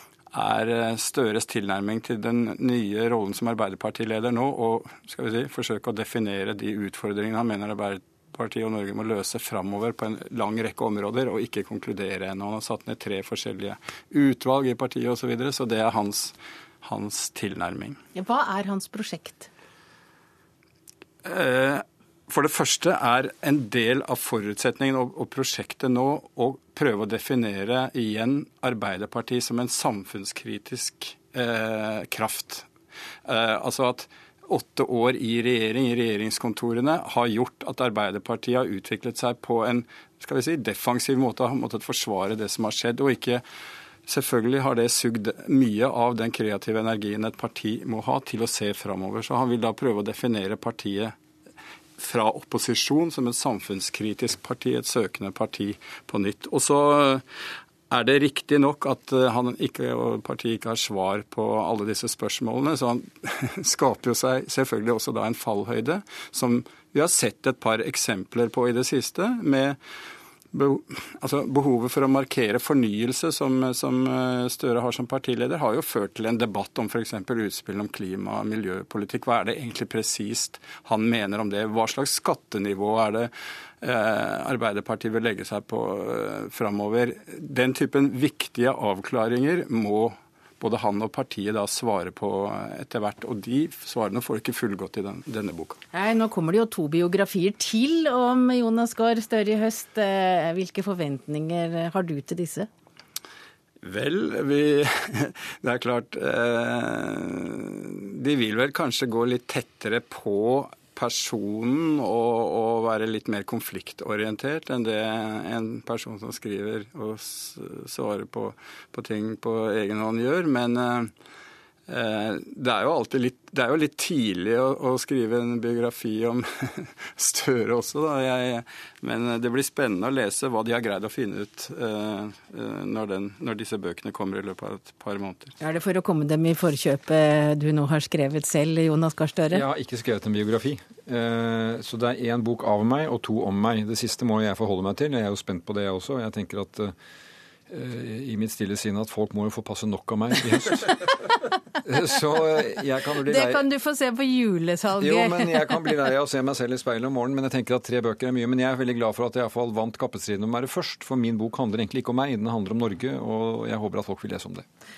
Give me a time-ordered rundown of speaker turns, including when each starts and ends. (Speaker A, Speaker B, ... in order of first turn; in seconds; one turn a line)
Speaker A: 0.3-18.0
Speaker B: 18.1-19.5
Speaker A: 21.2-32.7
Speaker A: 33.2-43.4
Speaker A: 44.1-51.1
Speaker A: 52.0-57.2
Speaker A: 57.9-69.8
Speaker A: 70.5-95.8
Speaker B: 95.9-102.7
Speaker A: 103.8-121.1
Speaker A: 121.9-135.5
Speaker B: 135.6-139.6
Speaker C: 139.5-146.9
Speaker C: 147.7-151.2
Speaker C: 151.8-153.7
Speaker B: 153.3-155.9
Speaker C: 155.0-164.7